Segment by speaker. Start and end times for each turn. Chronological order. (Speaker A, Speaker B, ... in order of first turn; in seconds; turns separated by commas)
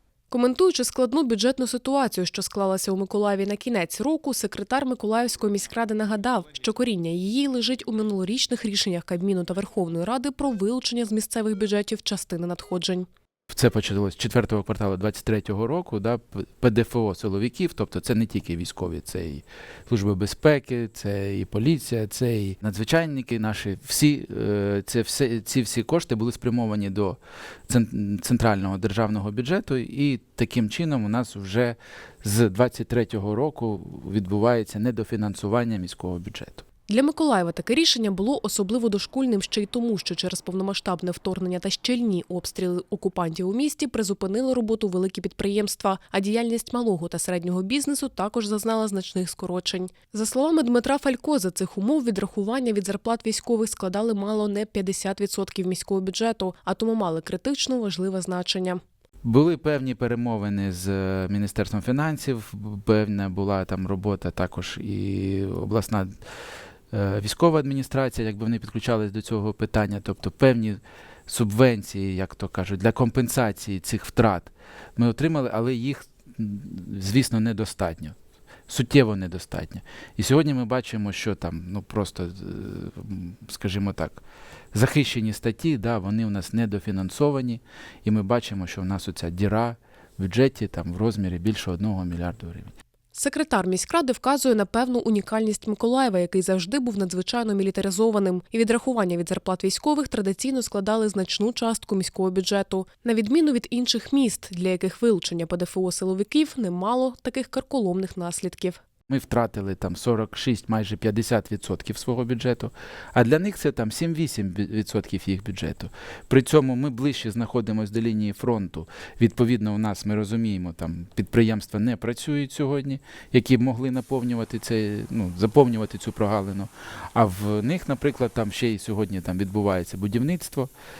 Speaker A: 0.3-13.1, Speaker B: 13.5-36.6, Speaker A: 36.9-58.8, Speaker B: 59.2-66.1, Speaker B: 66.9-78.2, Speaker B: 78.7-84.2, Speaker B: 84.7-92.7, Speaker A: 93.1-108.8, Speaker B: 109.1-130.7